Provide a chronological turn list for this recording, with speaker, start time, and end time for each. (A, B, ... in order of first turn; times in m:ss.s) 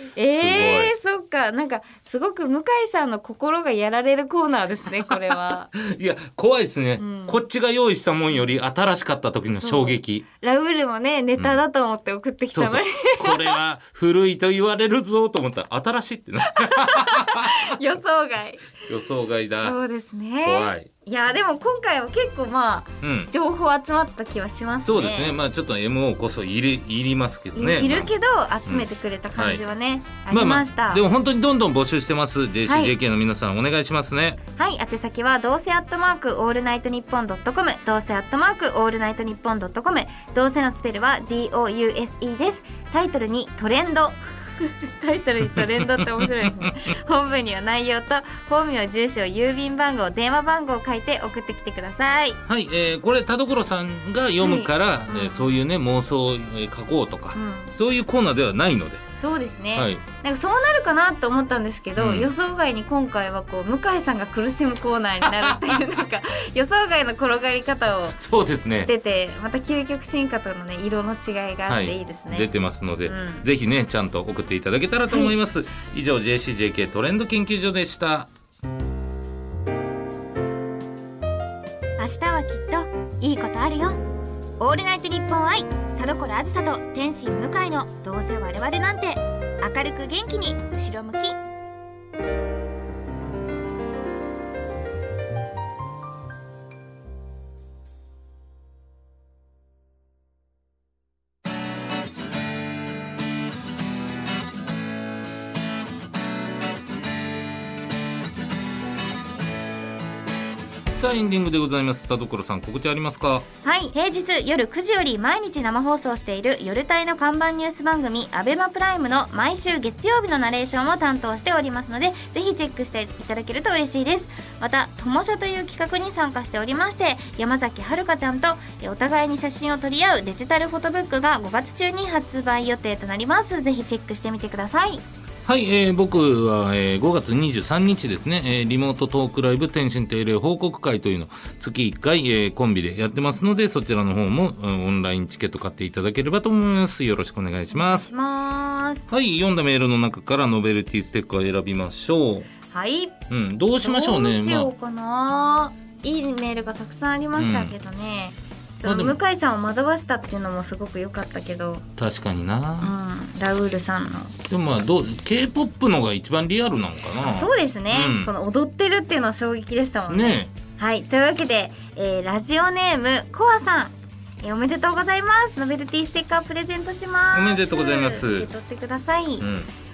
0:00.2-0:05.7 A
0:00.4-0:00.9 B
0:05.1-0:10.2 B
0:07.0-0:07.4 A
0:09.5-0:13.6 A
0:12.5-0:17.8 B
0:16.4-0:18.8 A
0:18.8-0:19.8 B
0:19.6-0:25.4 A
0:20.4-0:20.9 B
0:23.0-0:23.3 B
0:24.8-0:28.1 B
0:27.6-0:31.0 A
0:28.6-0:29.6 B
0:30.3-0:34.4 B
0:32.7-0:32.9 A
0:34.6-0:52.4 A
0:45.5-0:46.7 B
0:52.5-0:59.0 B
0:54.4-0:55.6 A
0:57.4-0:57.7 A
0:59.2-1:08.2 A
0:59.8-1:00.0 B
1:02.0-1:02.3 B
1:05.4-1:05.7 B
1:08.1-1:08.9 B
1:08.8-1:12.5 A
1:11.7-1:18.3 B
1:13.0-1:13.4 A
1:15.1-1:15.4 A
1:22.0-1:24.0 A
1:24.6-1:31.4 A
1:50.9-1:53.4 B
1:53.6-2:15.0 A
2:15.4-2:28.1 B
2:27.7-2:29.1 A
2:29.1-2:32.5 B
2:32.7-2:33.2 A
2:33.3-2:34.7 B
2:33.8-2:41.8 A
2:37.4-2:37.7 B
2:38.8-2:39.2 B
2:42.0-2:42.9 B
2:42.8-2:44.4 A
2:44.5-2:48.3 B
2:47.2-2:59.5 A
2:50.1-2:50.5 B
2:57.3-2:58.5 B
2:59.4-2:59.7 B